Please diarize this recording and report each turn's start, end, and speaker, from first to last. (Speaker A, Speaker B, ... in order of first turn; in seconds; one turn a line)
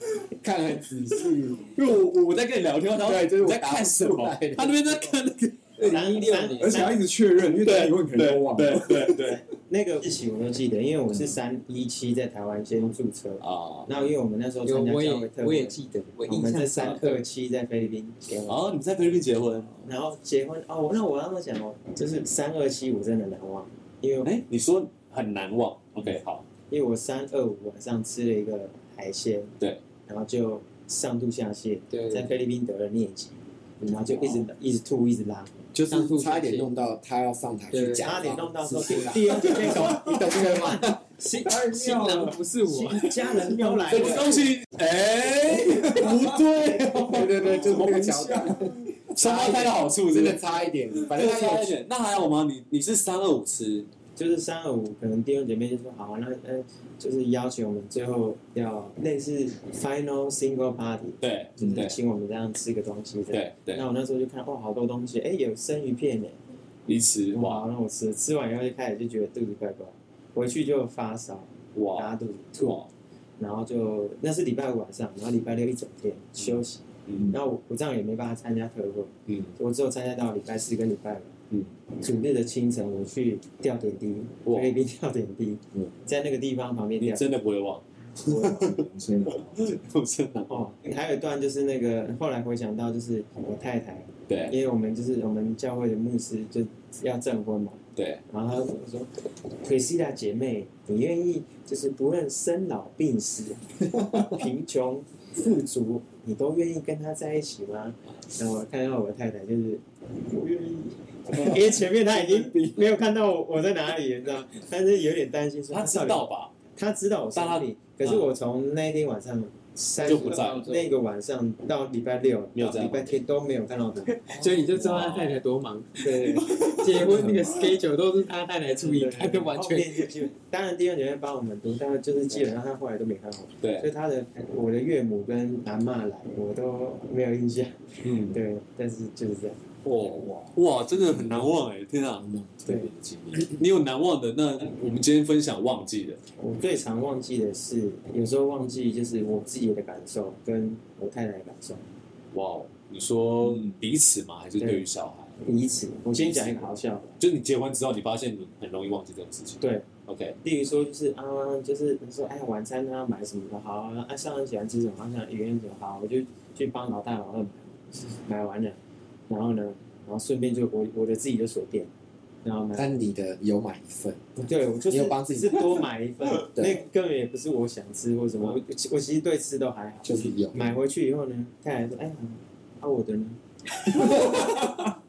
Speaker A: 0.3-1.7
Speaker B: 1.7-5.8
Speaker A: 3.0-5.1
Speaker C: 5.8-9.3
Speaker D: 5.8-7.0
Speaker E: 5.8-6.9
Speaker B: 7.4-9.4
Speaker D: 9.1-18.6
Speaker B: 13.4-14.0
Speaker E: 14.6-17.2
Speaker B: 18.5-19.8
Speaker D: 19.8-24.3
Speaker B: 24.2-26.4
Speaker D: 26.7-35.5
Speaker E: 31.9-32.3
Speaker A: 35.7-41.0
Speaker E: 35.9-36.7
Speaker E: 37.7-38.2
Speaker D: 38.0-41.6
Speaker E: 38.9-39.2
Speaker C: 39.6-40.2
Speaker E: 41.2-43.7
Speaker C: 41.4-42.4
Speaker D: 42.6-44.5
Speaker C: 43.1-44.2
Speaker B: 43.9-48.2
Speaker C: 45.6-46.4
Speaker A: 47.0-51.8
Speaker C: 47.3-48.8
Speaker B: 49.1-50.4
Speaker B: 50.9-53.9
Speaker D: 54.2-66.4
Speaker B: 61.2-62.0
Speaker B: 63.3-63.9
Speaker B: 66.9-67.7
Speaker D: 67.3-72.8
Speaker B: 71.7-72.9
Speaker D: 73.4-81.3
Speaker B: 77.1-77.3
Speaker B: 79.3-79.5
Speaker D: 82.0-87.3
Speaker B: 84.5-84.8
Speaker B: 87.0-90.6
Speaker D: 88.2-88.6
Speaker C: 88.2-89.8
Speaker D: 90.5-99.1
Speaker B: 94.3-94.5
Speaker B: 98.0-98.2
Speaker D: 99.6-124.2
Speaker C: 112.0-112.9
Speaker B: 115.7-116.5
Speaker B: 117.3-118.3
Speaker B: 120.0-120.8
Speaker E: 120.0-120.8
Speaker B: 122.5-123.2
Speaker E: 124.2-130.2
Speaker B: 124.3-125.4
Speaker D: 126.0-126.8
Speaker C: 127.1-127.4
Speaker D: 128.7-139.6
Speaker B: 133.6-133.9
Speaker B: 138.0-138.4
Speaker B: 139.8-142.3
Speaker C: 140.2-140.5
Speaker C: 142.3-143.5
Speaker D: 142.7-142.9
Speaker B: 143.3-146.2
Speaker D: 146.4-151.8
Speaker B: 152.3-155.3
Speaker D: 154.6-154.8
Speaker D: 155.4-157.2
Speaker B: 156.1-160.4
Speaker D: 159.6-159.9
Speaker D: 160.4-171.9
Speaker D: 172.4-172.9
Speaker A: 172.8-174.3
Speaker D: 174.4-184.8
Speaker A: 174.9-175.8
Speaker A: 176.4-176.8
Speaker A: 180.0-180.8
Speaker C: 183.9-184.9